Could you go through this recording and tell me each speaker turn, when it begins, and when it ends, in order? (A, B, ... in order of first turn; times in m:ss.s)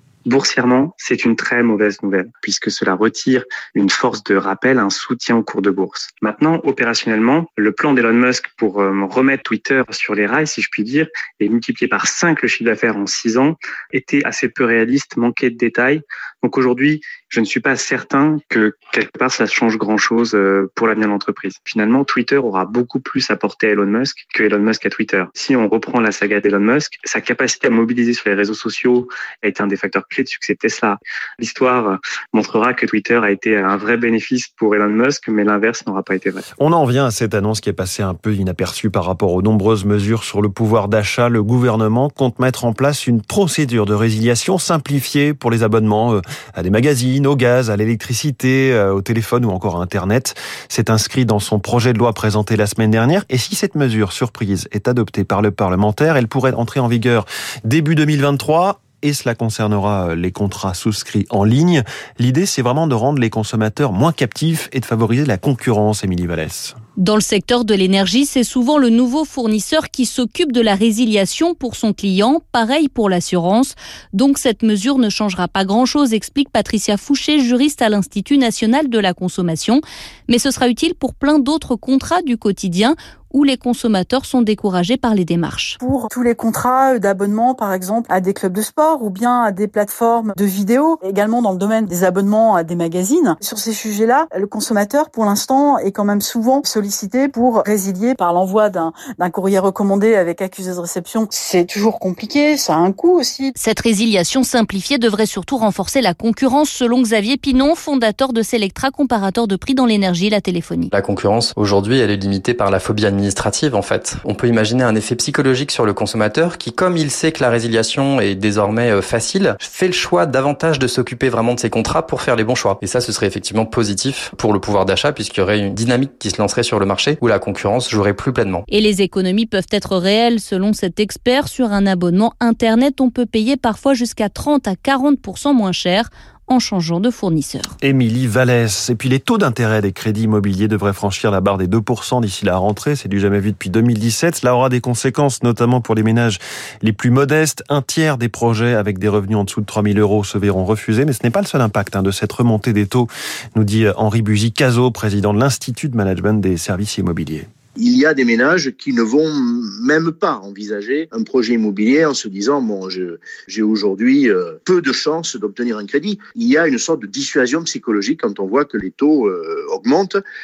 0:00.2-0:36.4 A
0:36.6-1:06.8 B
1:07.0-1:25.8 C
1:25.8-1:43.5 D
1:43.6-1:50.9 C
1:50.9-2:08.6 E
2:08.7-2:17.7 C
2:17.8-2:37.5 B
2:37.8-2:50.2 F